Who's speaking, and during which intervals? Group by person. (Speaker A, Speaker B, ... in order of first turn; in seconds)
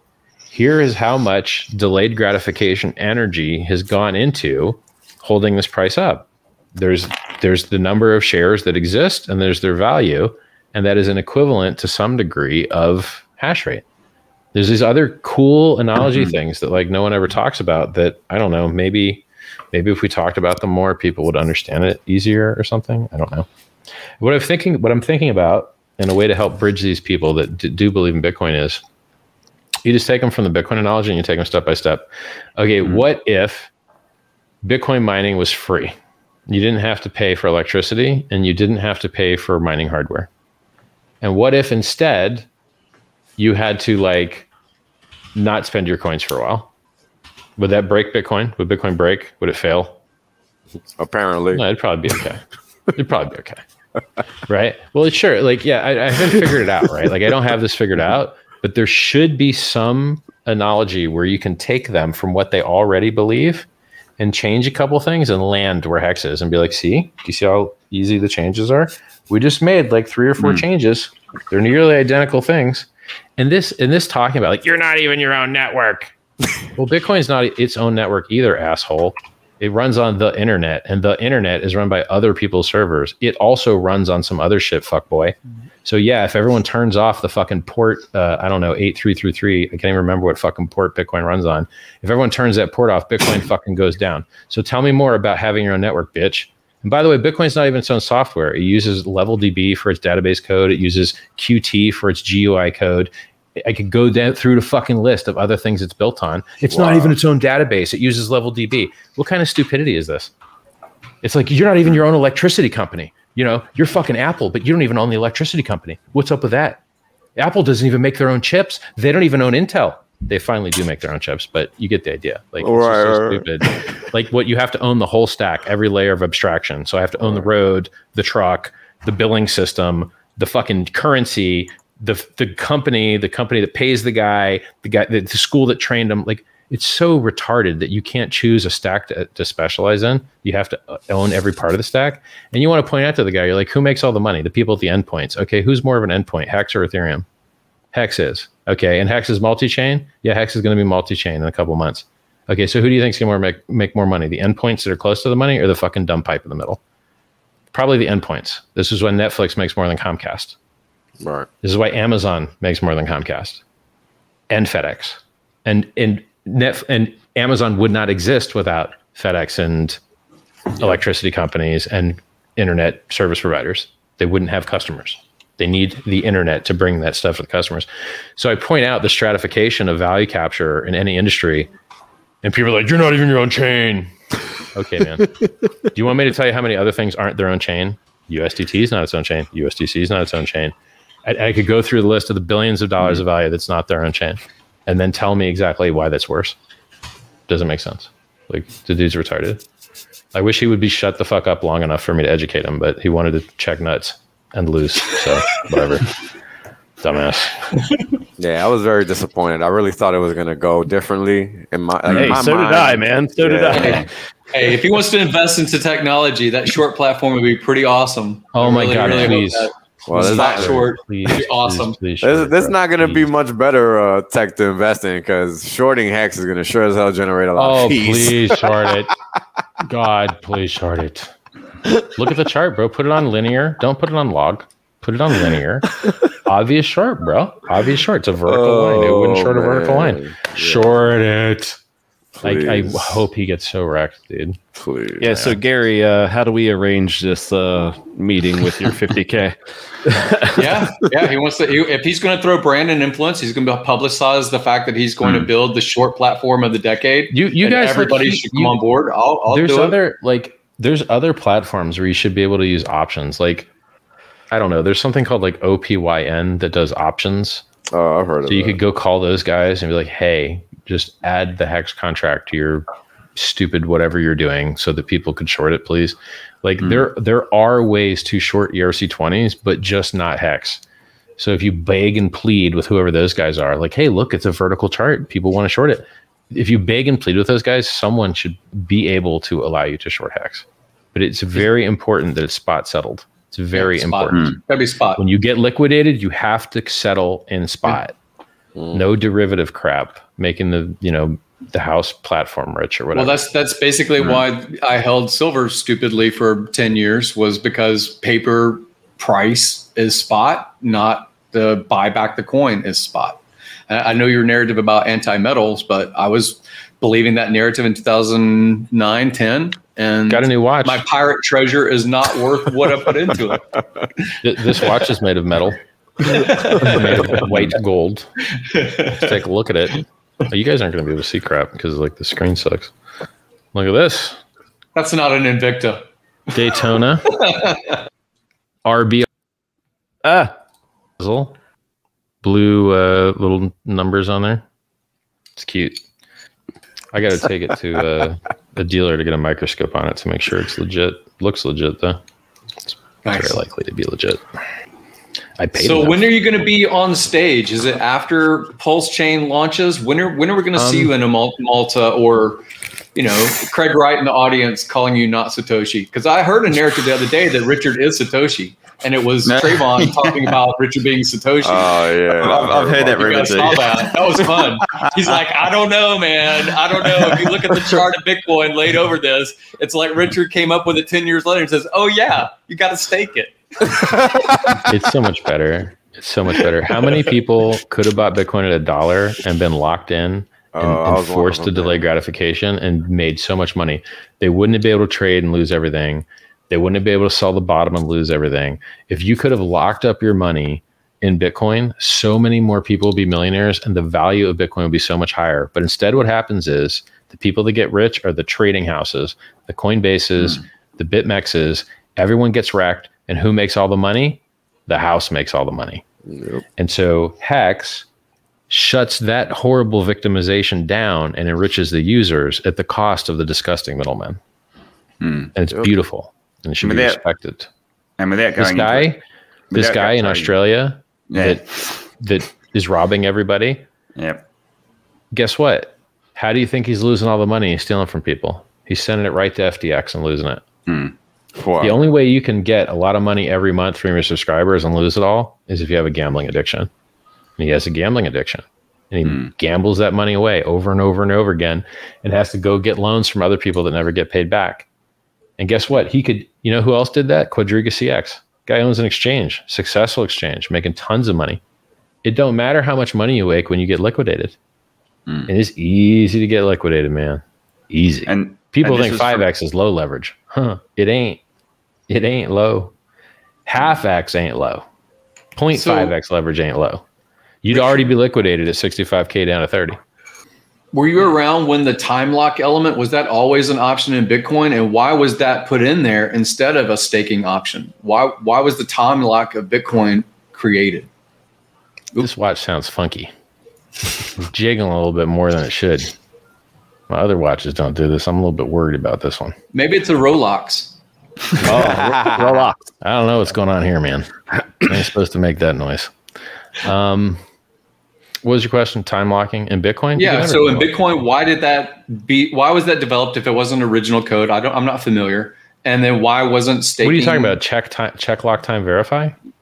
Speaker A: 0.5-13.8, 14.5-23.5, 24.2-28.8, 29.8-33.7, 34.6-35.9, 36.5-40.3, 41.2-42.5, 43.4-44.5, 45.3-46.7, 47.6-50.0, 51.5-52.4, 52.9-53.6, 54.5-63.7, 64.2-76.1, 76.7-110.3, 111.2-116.8, 117.4-147.2, 147.9-156.8, 157.7-160.6, 161.6-163.6, 164.5-170.0, 170.8-181.7, 182.4-184.1, 184.7-185.3, 185.9-190.7, 191.2-196.6, 197.5-199.6, 200.3-206.1, 207.0-207.8, 212.1-212.4, 218.5-223.2, 227.6-229.1, 229.8-231.3, 232.1-241.8, 242.4-244.6, 245.3-245.6, 257.3-258.8, 259.5-263.7, 264.5-267.6, 268.4-272.8, 273.4-280.8, 281.4-294.6, 295.2-298.1, 298.9-303.4, 320.3-321.0, 324.4-328.3, 329.1-332.9, 333.7-334.4, 336.5-337.4, 338.8-339.3, 341.2-341.5, 342.4-344.6, 345.6-346.0, 347.1-352.2, 352.9-354.4, 355.6-356.3, 360.8-361.1, 384.9-416.0, 416.8-418.1, 418.7-424.4, 425.5-427.7, 428.6-429.2, 429.7-431.6, 432.2-433.8, 435.3-440.6, 441.8-446.9, 447.6-454.9, 455.6-461.6, 462.2-464.6, 465.5-471.4, 472.1-472.9, 473.7-474.8, 475.5-477.0, 477.6-480.0, 492.2-493.3, 494.4-496.1, 497.1-499.5, 503.0-506.1, 506.8-507.4, 508.4-510.9, 517.0-519.3
Speaker B: 51.0-51.6, 106.7-107.2, 122.6-123.7, 161.2-161.5, 208.4-214.0, 220.1-220.9, 222.2-228.8, 238.4-240.9, 242.4-243.2, 244.7-245.3, 267.9-268.8, 298.8-299.0, 371.6-373.7, 390.7-392.0, 416.3-416.6, 441.6-442.0, 501.8-502.7
Speaker C: 212.1-212.4, 213.7-214.1, 255.2-255.5, 276.8-277.1, 304.2-304.4, 369.4-370.6, 372.3-375.1, 425.2-425.5, 426.8-427.2, 428.2-429.1, 429.7-430.6, 431.3-432.0, 434.1-434.4, 440.9-441.1, 449.2-449.5, 468.3-469.5
Speaker D: 212.2-214.1, 245.2-251.1, 340.2-340.5, 501.6-502.9
Speaker E: 213.7-222.0, 250.6-259.9, 293.7-295.2, 303.1-323.6, 326.2-327.6, 328.6-329.3, 334.9-336.0, 337.3-338.0, 353.2-353.6, 355.8-362.6, 363.1-384.2, 475.7-476.1, 480.9-491.1, 499.7-500.9, 510.2-517.6